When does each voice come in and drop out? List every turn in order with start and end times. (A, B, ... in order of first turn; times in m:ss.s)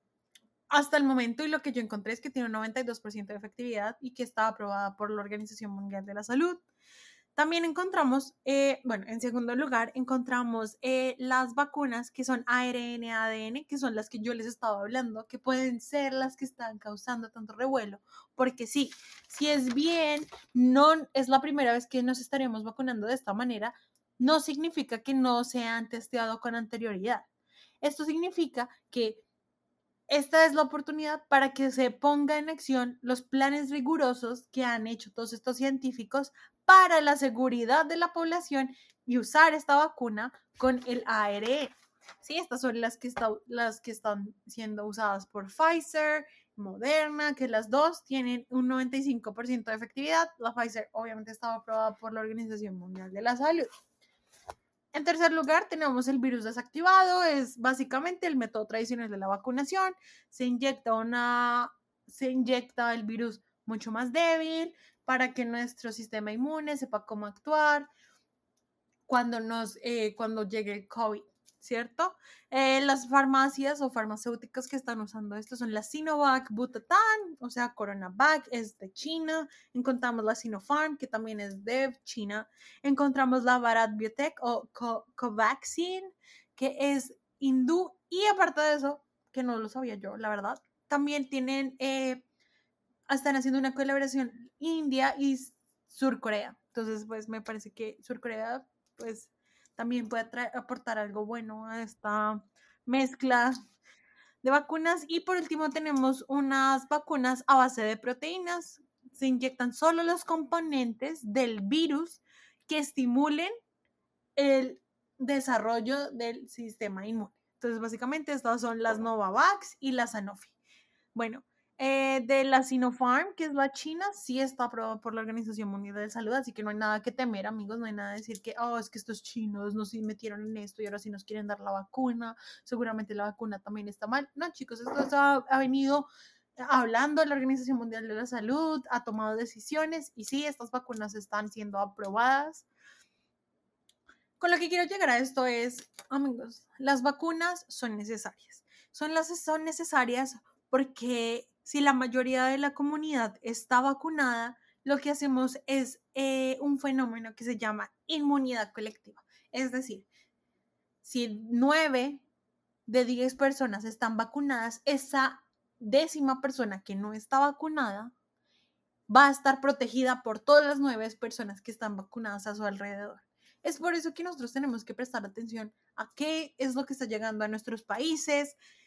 0:00.7-0:06.6 A
0:07.4-0:27.3 A
0:27.8-0:29.2 A
0:30.1-0:53.7 A
0:54.9-1:07.9 A
1:09.1-1:32.2 A
1:33.1-1:43.6 A
1:44.4-1:53.5 A
1:54.4-2:00.5 A
2:01.1-2:16.1 A
2:16.6-2:22.6 A
2:24.4-2:40.1 A
2:41.0-2:42.2 A
2:42.9-2:48.1 A
2:49.1-2:58.6 A